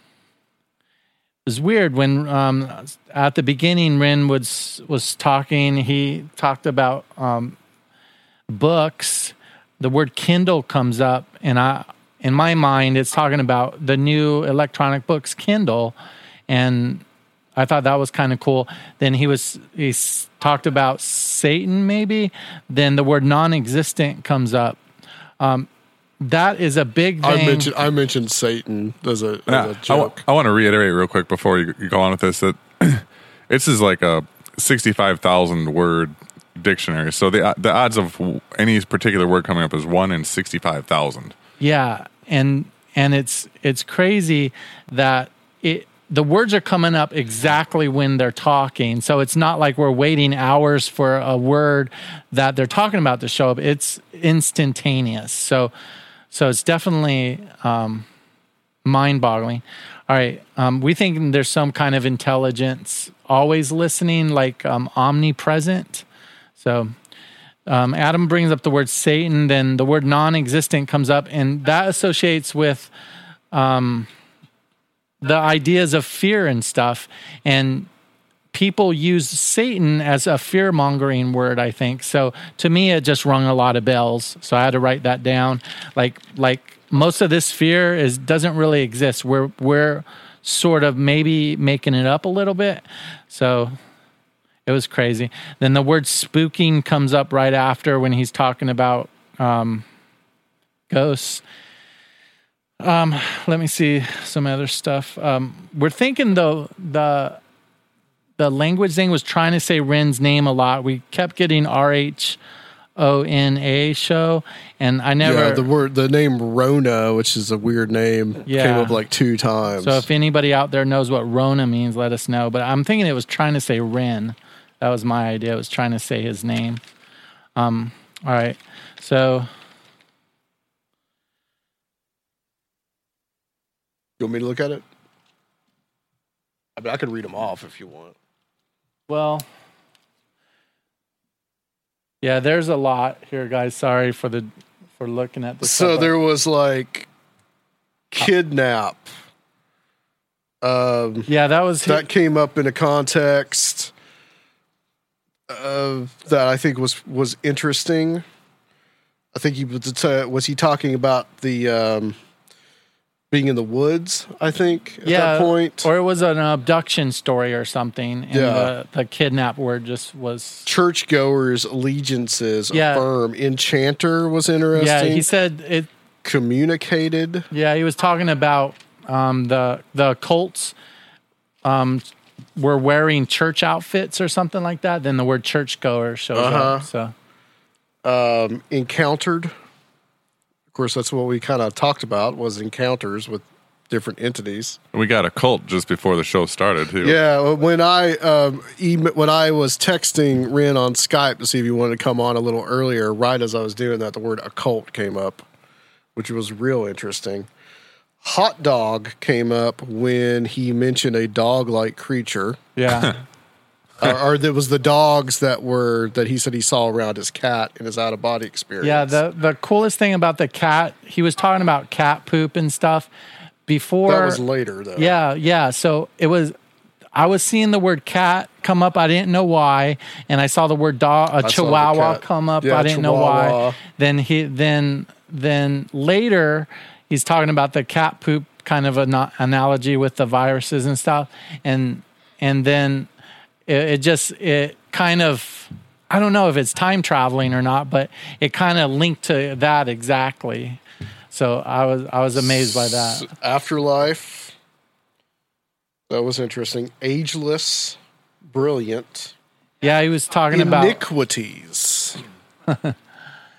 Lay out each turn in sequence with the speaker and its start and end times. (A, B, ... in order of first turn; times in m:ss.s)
0:01.4-0:07.6 A
0:08.5-0:16.0 A
0:16.5-0:17.0 A
0:17.6-0:24.8 A
0:25.4-0:25.7 A
0:26.2-0:27.7 A
0:27.2-0:30.2 B
0:29.5-0:41.4 C
0:41.6-0:55.7 A
0:56.3-0:58.0 A
0:58.8-1:06.0 A
1:06.6-1:06.9 A
1:07.7-1:12.9 A
1:13.5-1:14.1 A
1:15.2-1:17.9 A
1:18.5-1:33.8 A
1:34.6-1:39.8 A
1:40.9-1:41.4 A
1:42.8-1:47.4 A
1:48.4-1:52.4 A
1:53.0-1:55.6 A
1:55.2-2:00.0 B
1:58.4-1:59.0 A
1:59.8-2:06.8 A
2:07.6-2:09.5 A
2:14.2-2:14.8 B
2:16.8-2:18.1 B
2:19.1-2:19.5 A
2:22.2-2:26.1 A
2:25.6-2:27.1 B
2:28.1-2:29.1 B
2:30.6-2:31.3 B
2:31.3-2:32.1 A
2:31.8-2:33.9 B
2:35.5-2:38.2 B
2:39.3-2:42.2 B
2:43.3-2:45.9 B
2:45.0-2:50.7 A
2:48.3-2:48.7 B
2:50.6-2:55.2 B
2:52.7-2:53.0 A
2:54.7-2:55.9 A
2:56.2-2:57.5 B
2:57.5-3:00.7 A
3:01.6-3:02.0 A
3:02.6-3:07.1 A
3:06.3-3:06.9 B
3:08.0-3:09.5 B
3:10.7-3:14.8 B
3:14.9-3:17.2 C
3:17.0-3:25.4 B
3:26.1-3:27.5 B
3:28.2-3:32.6 B
3:32.8-3:33.2 A
3:34.0-3:39.2 B
3:38.8-3:43.1 A
3:43.7-3:44.4 A
3:44.0-3:45.2 B
3:45.0-3:46.6 A
3:47.1-4:03.1 A
3:51.4-3:53.8 B
4:03.7-4:10.8 A
4:11.3-4:13.3 A
4:12.4-4:14.5 B
4:16.1-4:19.3 B
4:19.8-4:21.0 A
4:20.5-4:22.2 B
4:22.7-4:23.0 A